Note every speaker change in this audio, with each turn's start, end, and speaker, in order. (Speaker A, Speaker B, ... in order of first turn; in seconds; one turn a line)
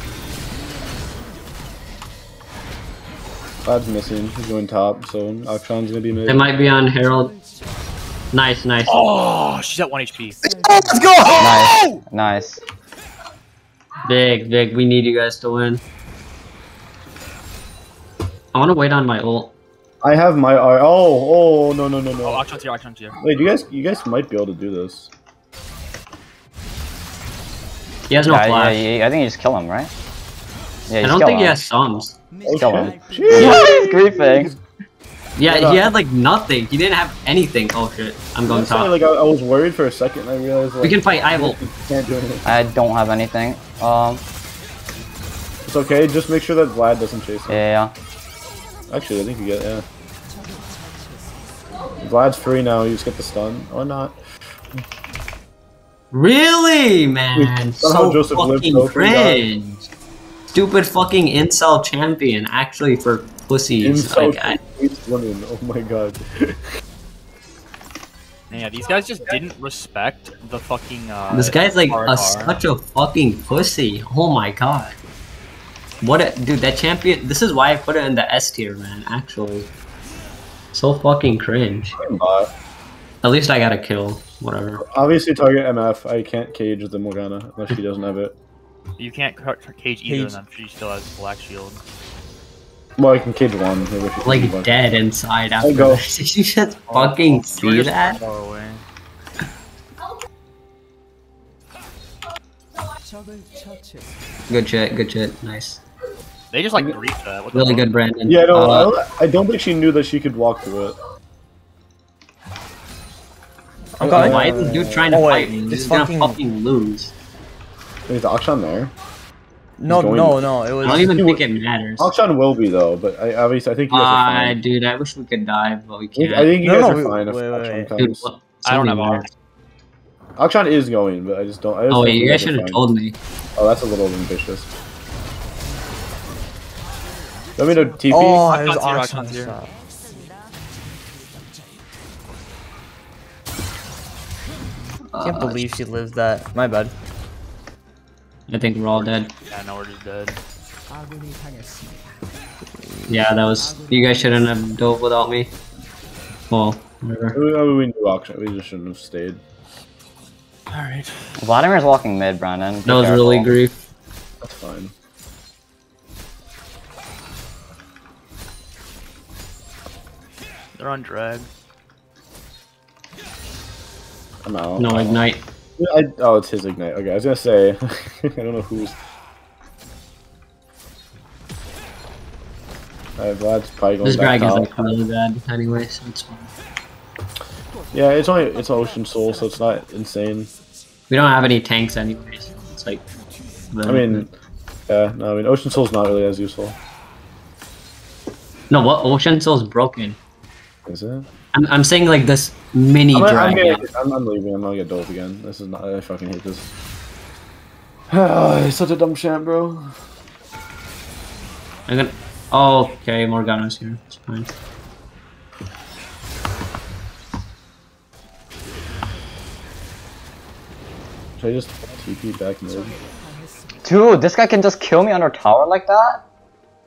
Speaker A: 3.6-6.5
Speaker B: 6.2-7.4
Speaker B: 8.3-9.0
Speaker C: 8.9-10.5
Speaker D: 10.6-12.0
Speaker E: 11.3-12.6
Speaker B: 14.0-15.8
Speaker B: 18.5-19.5
Speaker A: 20.0-22.4
Speaker C: 22.2-23.2
Speaker A: 23.2-25.1
Speaker B: 28.1-28.8
Speaker E: 28.2-29.9
Speaker E: 30.9-31.6
Speaker B: 31.0-32.1
Speaker A: 32.4-34.6
Speaker E: 32.5-34.5
Speaker B: 33.3-33.6
Speaker B: 35.4-38.9
Speaker A: 35.4-35.9
Speaker A: 38.5-42.5
Speaker B: 40.8-41.6
Speaker E: 42.5-44.2
Speaker A: 45.6-47.6
Speaker E: 47.5-47.9
Speaker A: 48.9-49.8
Speaker A: 52.0-54.2
Speaker B: 56.1-59.9
Speaker A: 57.3-59.5
Speaker B: 60.5-64.6
Speaker A: 63.8-66.7
Speaker C: 68.5-72.6
Speaker B: 71.3-75.0
Speaker B: 76.0-79.7
Speaker B: 80.7-82.0
Speaker A: 82.0-82.5
Speaker B: 83.2-84.8
Speaker A: 84.8-88.3
Speaker C: 89.0-91.8
Speaker D: 90.1-90.4
Speaker A: 93.0-94.8
Speaker B: 94.2-98.2
Speaker A: 95.6-96.0
Speaker C: 96.9-98.8
Speaker B: 104.5-105.8
Speaker C: 106.5-107.9
Speaker B: 107.5-108.9
Speaker A: 108.2-111.0
Speaker D: 114.0-116.4
Speaker A: 114.0-115.2
Speaker B: 114.0-117.1
Speaker A: 118.1-118.9
Speaker D: 119.8-121.2
Speaker A: 119.9-121.4
Speaker B: 120.8-122.1
Speaker A: 122.0-124.6
Speaker B: 123.9-126.5
Speaker A: 126.1-128.3
Speaker D: 126.6-127.9
Speaker B: 128.0-129.3
Speaker C: 128.6-129.3
Speaker A: 130.4-132.8
Speaker B: 131.9-133.2
Speaker A: 133.6-134.7
Speaker A: 137.6-138.5
Speaker D: 138.1-139.7
Speaker C: 138.4-139.6
Speaker B: 145.1-145.6
Speaker D: 145.2-146.9
Speaker B: 148.5-149.3
Speaker C: 149.5-150.4
Speaker B: 153.1-155.5
Speaker B: 156.5-157.4
Speaker A: 157.3-159.4
Speaker C: 160.7-161.3
Speaker E: 161.4-163.5
Speaker B: 162.8-163.7
Speaker A: 164.4-164.9
Speaker C: 170.7-171.5
Speaker A: 174.4-175.2
Speaker B: 174.8-175.4
Speaker A: 175.8-178.9
Speaker A: 183.2-184.9
Speaker B: 184.0-186.5
Speaker A: 187.9-190.5
Speaker B: 191.1-193.0
Speaker B: 193.7-194.2
Speaker A: 193.8-194.3
Speaker A: 194.9-196.8
Speaker B: 198.7-200.2
Speaker A: 200.8-201.3
Speaker B: 201.5-203.8
Speaker A: 203.1-206.7
Speaker A: 208.1-209.9
Speaker B: 211.9-214.5
Speaker A: 221.4-223.0
Speaker E: 223.8-226.2